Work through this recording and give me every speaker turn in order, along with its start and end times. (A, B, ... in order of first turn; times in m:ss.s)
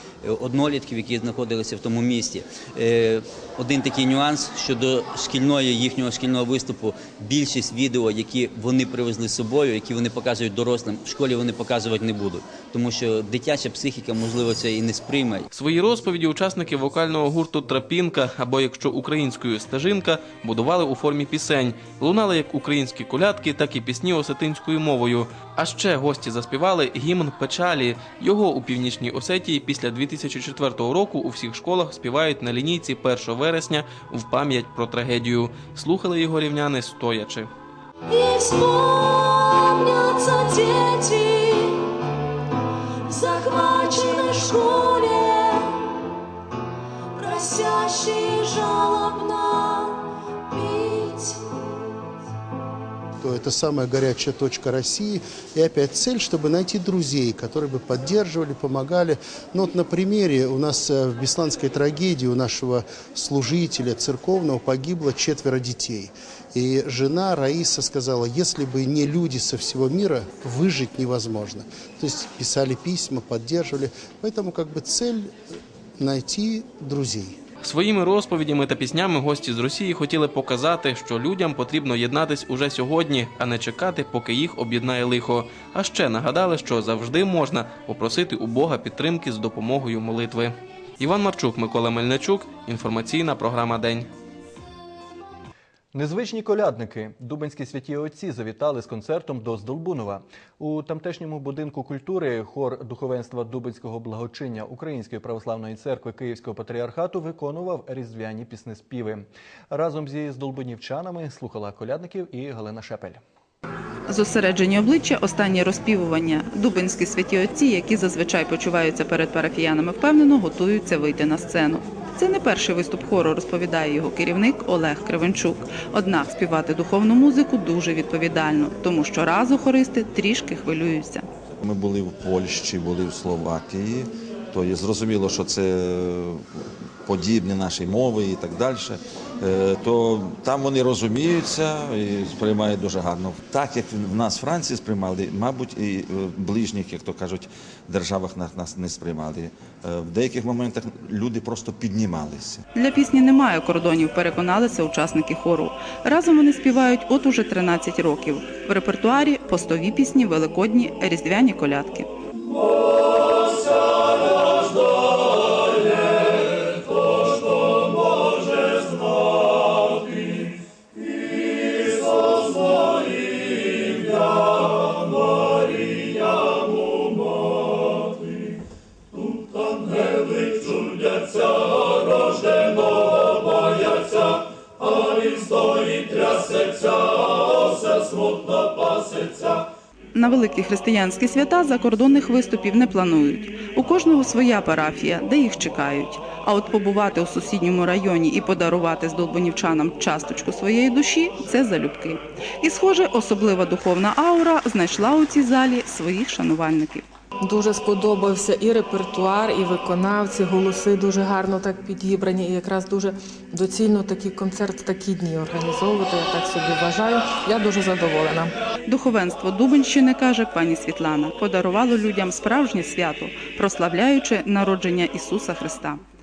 0:00.2-0:15.4 A
0:15.5-0:37.5 B
0:38.1-0:41.9 C
0:43.1-0:46.0 C
0:47.2-0:51.9 C
0:53.2-1:15.3 D
1:16.0-1:17.4 D
1:17.6-1:34.1 B
1:35.9-1:53.2 E
1:54.1-2:11.3 F
2:11.6-2:16.4 G
2:17.1-2:32.6 G
2:32.8-2:42.1 F
3:10.2-3:27.1 F
3:27.4-3:38.5 H
3:38.9-3:46.0 F